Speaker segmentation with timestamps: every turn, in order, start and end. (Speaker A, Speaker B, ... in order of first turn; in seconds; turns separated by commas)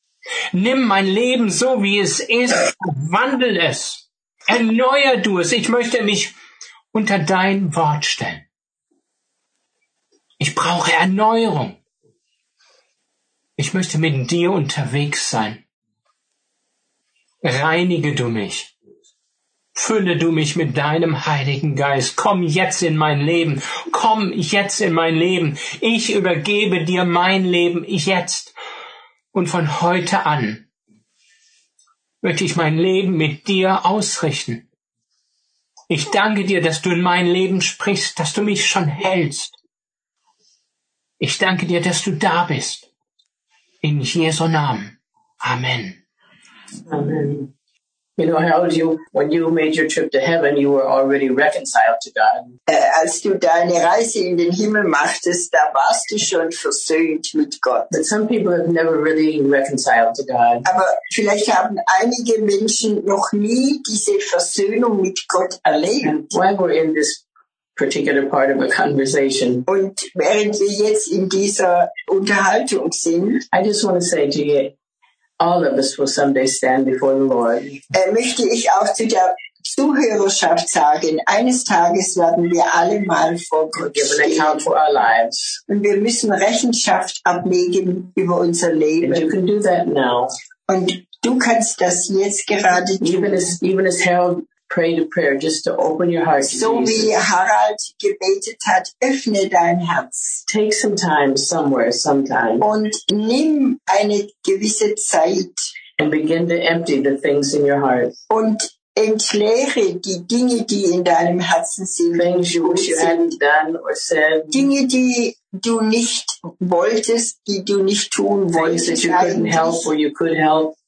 Speaker A: 0.5-6.3, Speaker A: 6.9-8.4, Speaker A: 10.4-11.8, Speaker A: 13.6-15.6, Speaker A: 17.4-18.7, Speaker A: 19.7-28.5, Speaker A: 29.3-30.6, Speaker A: 32.2-34.6, Speaker A: 35.9-39.5, Speaker A: 41.2-42.9, Speaker A: 43.8-46.0, Speaker B: 46.9-47.5, Speaker B: 48.2-52.5, Speaker C: 52.7-57.9, Speaker B: 57.9-60.7, Speaker C: 60.6-66.3, Speaker B: 66.0-67.2, Speaker B: 67.8-69.6, Speaker C: 69.7-73.4, Speaker B: 73.5-74.7, Speaker B: 75.4-77.8, Speaker C: 77.9-84.7, Speaker B: 83.8-85.6, Speaker C: 85.7-89.3, Speaker B: 89.0-90.3, Speaker C: 90.7-93.5, Speaker B: 93.0-97.1, Speaker C: 96.4-100.4, Speaker B: 100.5-102.7, Speaker C: 102.6-105.6, Speaker B: 106.0-108.1, Speaker C: 108.3-113.4, Speaker B: 112.1-114.7, Speaker C: 114.5-119.9, Speaker B: 118.5-120.7